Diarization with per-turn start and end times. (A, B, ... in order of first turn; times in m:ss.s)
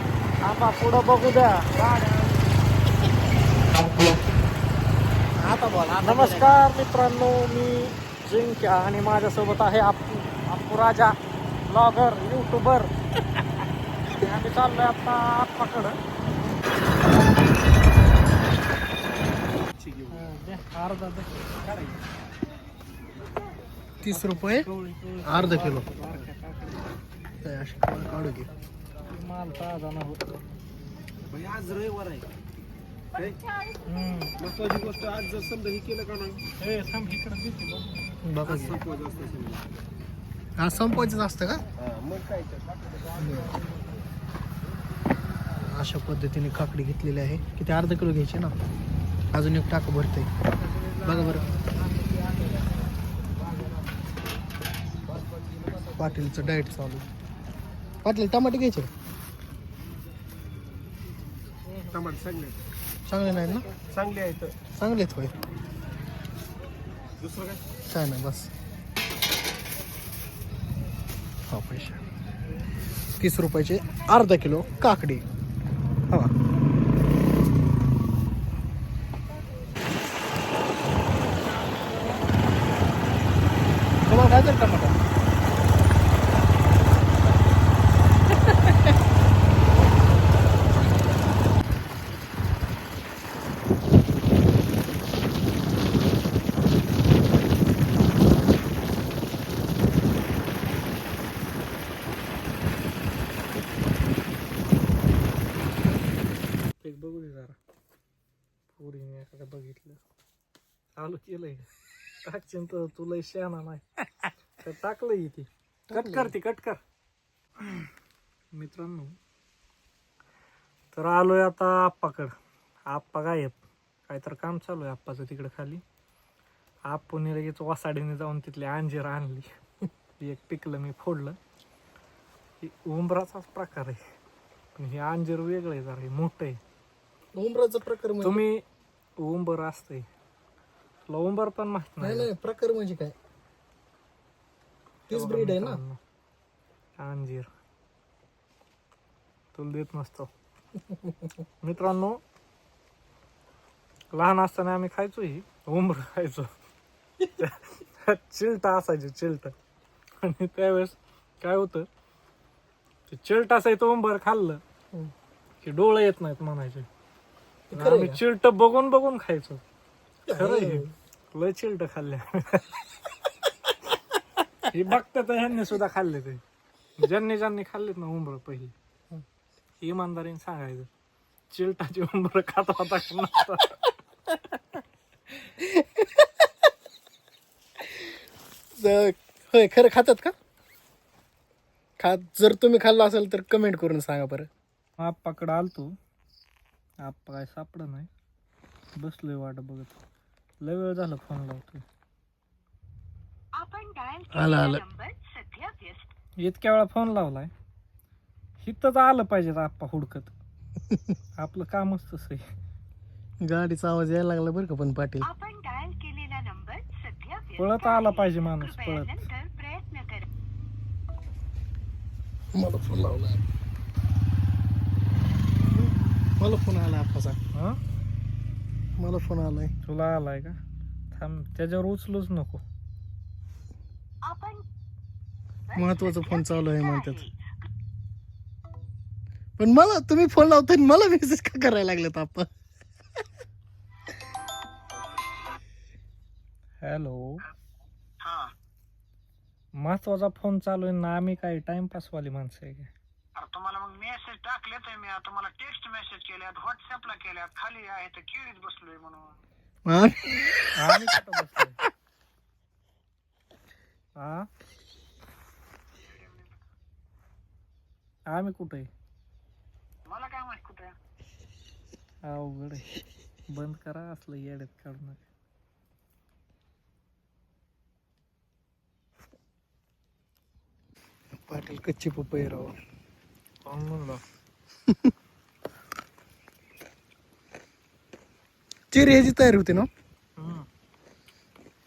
0:00.4-0:02.4 A
0:05.4-0:06.1 B
0:06.0-0:11.2 A
0:11.7-0:12.9 A
0:14.1-0:16.0 A
0:20.1-0:22.0 A
0:24.0-0:24.7 B
0:24.1-0:26.9 A
0:25.2-0:25.9 B
0:27.4-0:28.5 B
0:29.1-0:30.3 A
0:31.3-0:32.2 C
0:33.8-0:34.4 A
0:34.4-0:36.4 C
0:36.6-0:37.9 A
0:38.2-0:38.8 B
0:38.6-0:39.6 C
0:40.6-0:41.6 B
0:41.8-0:42.7 C
0:43.2-0:43.6 B
0:45.6-0:48.5 B
0:49.3-0:50.3 B
0:50.6-0:51.6 A
0:51.0-0:51.5 B
0:55.8-0:57.1 B
0:58.0-0:58.9 B
1:01.9-1:02.6 C
1:03.1-1:03.7 B
1:03.8-1:04.6 C
1:04.7-1:05.4 B
1:07.3-1:07.6 C
1:07.9-1:08.5 B
1:11.5-1:12.0 B
1:13.2-1:15.2 B
1:24.0-1:25.0 B
1:46.8-1:47.6 A
1:48.7-1:50.0 A
1:51.0-1:51.7 A
1:52.2-1:56.8 A
1:55.9-1:56.3 B
1:58.5-1:59.2 A
2:00.9-2:02.4 A
2:02.9-2:05.8 A
2:06.9-2:09.5 A
2:10.2-2:11.4 A
2:12.6-2:14.0 A
2:14.8-2:16.6 A
2:17.4-2:18.4 B
2:18.2-2:18.6 A
2:19.2-2:20.1 A
2:21.1-2:22.3 A
2:22.0-2:23.2 B
2:25.1-2:25.8 B
2:25.1-2:26.0 A
2:27.0-2:27.5 A
2:29.5-2:30.3 A
2:31.6-2:32.2 A
2:34.1-2:36.5 A
2:37.4-2:39.6 A
2:40.2-2:41.9 A
2:43.1-2:44.6 A
2:45.6-2:46.9 A
2:47.7-2:48.2 B
2:47.7-2:49.6 A
2:50.3-2:50.9 B
2:50.3-2:52.7 A
2:54.7-2:56.4 A
2:57.0-2:58.7 A
2:59.8-3:00.9 A
3:01.5-3:03.8 A
3:05.5-3:06.5 B
3:07.8-3:08.1 B
3:08.8-3:10.3 B
3:12.0-3:14.5 B
3:15.0-3:16.0 A
3:17.0-3:18.1 A
3:19.0-3:20.0 A
3:20.6-3:21.8 A
3:23.6-3:26.1 D
3:24.3-3:24.8 B
3:26.4-3:27.5 A
3:28.6-3:30.4 A
3:30.9-3:31.2 B
3:31.4-3:32.5 A
3:33.4-3:35.3 B
3:35.2-3:40.3 D
3:37.6-3:39.2 A
3:42.5-3:43.4 B
3:45.7-3:47.4 B
3:47.5-3:47.8 A
3:49.0-3:49.7 B
3:49.8-3:50.6 A
3:51.1-3:52.6 A
3:54.2-3:54.6 D
3:55.7-3:57.6 D
3:55.8-3:57.2 B
3:59.6-4:02.5 B
4:06.8-4:07.4 A
4:08.2-4:08.5 E
4:09.8-4:12.9 A
4:13.4-4:19.4 E
4:19.9-4:21.0 B
4:20.8-4:21.8 A
4:24.2-4:24.5 A
4:26.1-4:26.5 E
4:28.3-4:28.9 A
4:30.1-4:30.9 E
4:32.2-4:32.9 A
4:33.5-4:35.2 A
4:41.4-4:42.8 B
4:43.6-4:44.2 A
4:48.9-4:49.9 B
4:50.4-4:50.7 A